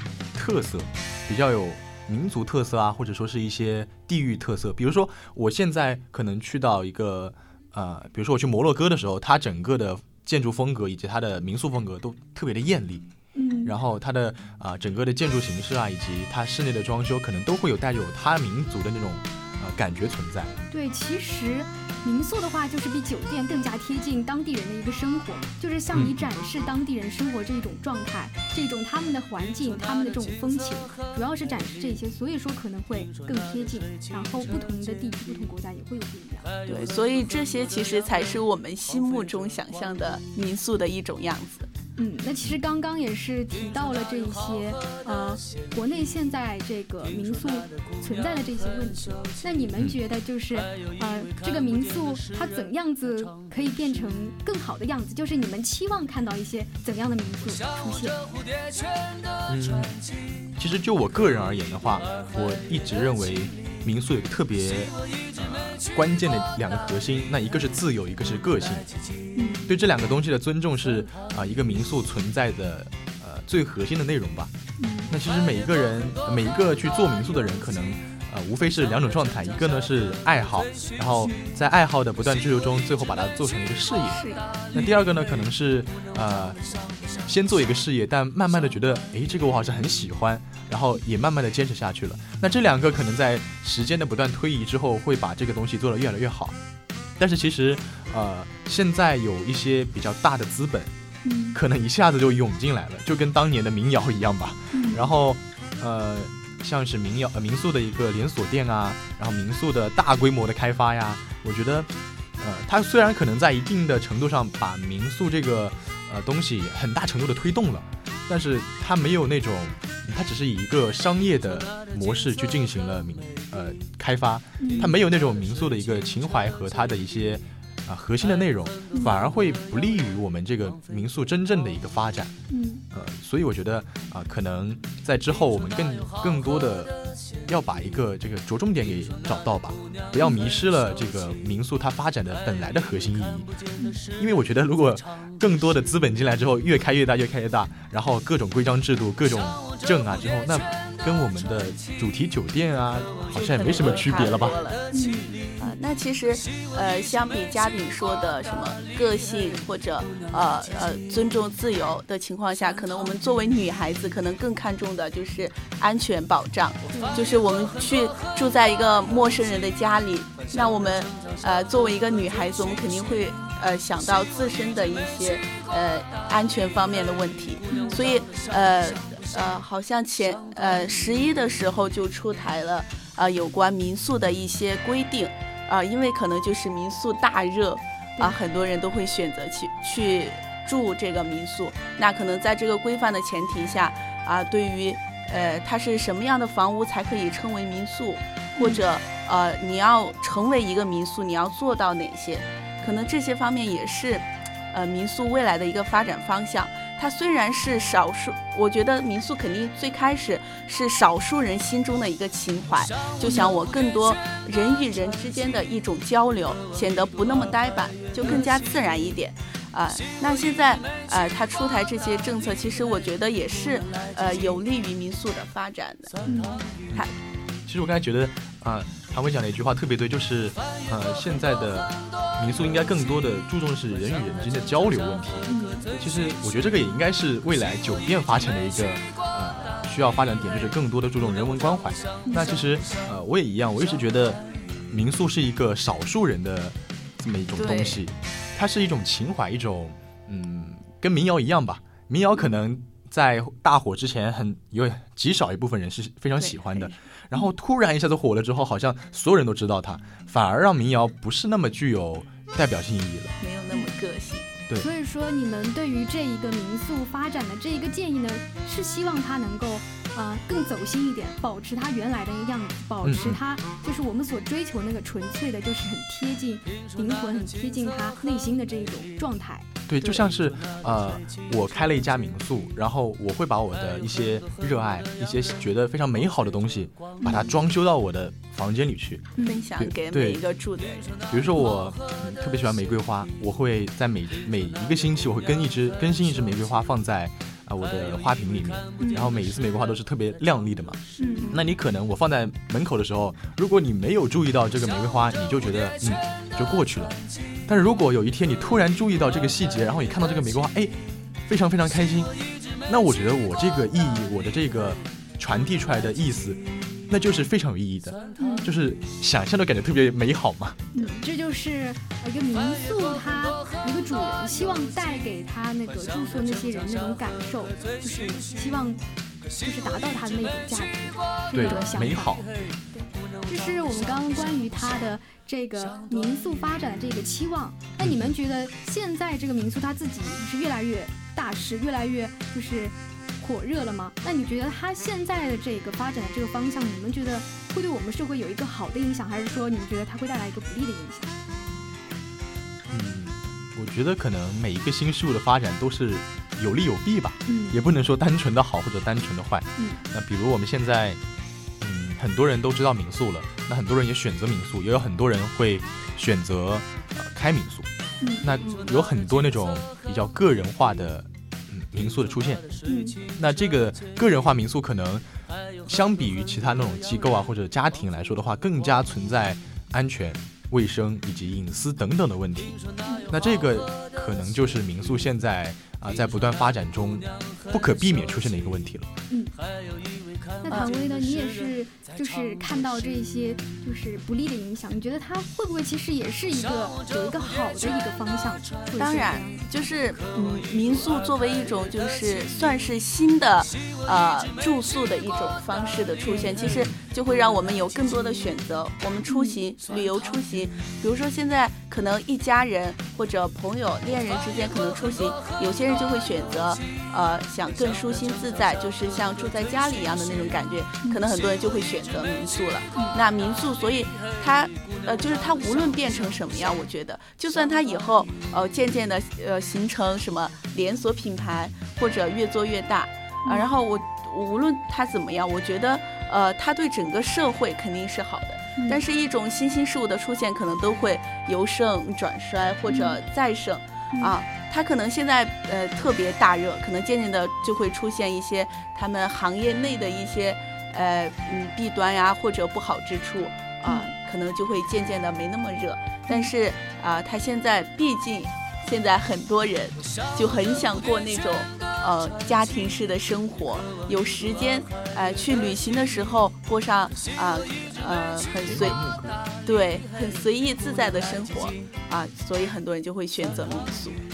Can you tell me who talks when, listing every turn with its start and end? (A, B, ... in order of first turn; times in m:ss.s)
0:00.3-0:13.0 A
0:13.3-0:13.7 B
0:13.6-0:20.5 A
0:20.7-0:36.5 B
0:25.9-0:26.2 A
0:36.6-0:41.7 C
0:42.0-0:58.2 B
0:59.5-1:00.0 A
1:00.6-1:08.9 A
1:09.3-1:09.7 B
1:09.7-1:14.5 A
1:14.8-1:15.1 B
1:15.1-1:26.6 A
1:21.2-1:21.5 B
1:24.0-1:24.4 C
1:27.2-1:36.6 A
1:37.2-1:40.9 A
1:41.2-1:41.6 B
1:41.5-2:12.3 A
1:44.7-1:45.0 B
2:04.6-2:04.9 B
2:08.9-2:09.2 B
2:12.5-2:12.8 B
2:12.9-2:16.9 A
2:17.4-2:23.5 A
2:20.2-2:20.5 B
2:23.8-2:24.0 B
2:24.2-2:34.6 A
2:33.3-2:34.8 C
2:34.9-2:35.8 B
2:35.6-3:46.2 C
2:46.9-2:47.2 B
2:57.7-2:58.0 B
3:18.6-3:18.8 B
3:33.2-3:33.5 B
3:46.2-3:46.6 B
3:47.6-4:23.3 A
3:55.5-3:55.9 B
4:02.2-4:02.5 B
4:07.5-4:08.0 C
4:16.4-4:17.0 C
4:23.4-4:24.5 C
4:24.8-4:39.7 B
4:33.0-4:33.4 A
4:39.9-4:50.4 A
4:40.0-4:40.2 C
4:47.2-4:47.5 B
4:49.4-4:51.2 C
4:51.3-5:01.0 A
4:59.0-4:59.3 B
5:01.2-5:01.5 B
5:01.4-5:01.7 C
5:01.5-5:12.3 A
5:12.9-5:20.8 A
5:18.4-5:18.7 B
5:20.9-5:29.0 B
5:29.6-5:32.4 B
5:31.5-5:32.5 A
5:32.9-5:51.3 B
5:38.0-5:38.3 A
5:52.9-6:01.2 A
5:57.5-5:57.8 B
6:01.8-6:07.9 A
6:08.2-6:08.4 B
6:08.4-6:12.6 A
6:12.8-6:13.2 B
6:13.4-6:15.2 A
6:15.8-6:29.1 A
6:23.0-6:23.3 B
6:29.3-6:29.6 B
6:30.6-6:39.8 B
6:39.0-7:49.0 C
6:46.2-6:46.5 B
6:46.6-6:46.9 A
6:49.3-6:49.6 B
7:13.4-7:13.7 B
7:22.9-7:23.2 B
7:33.8-7:34.1 B
7:48.6-7:49.4 A
7:49.6-7:54.2 C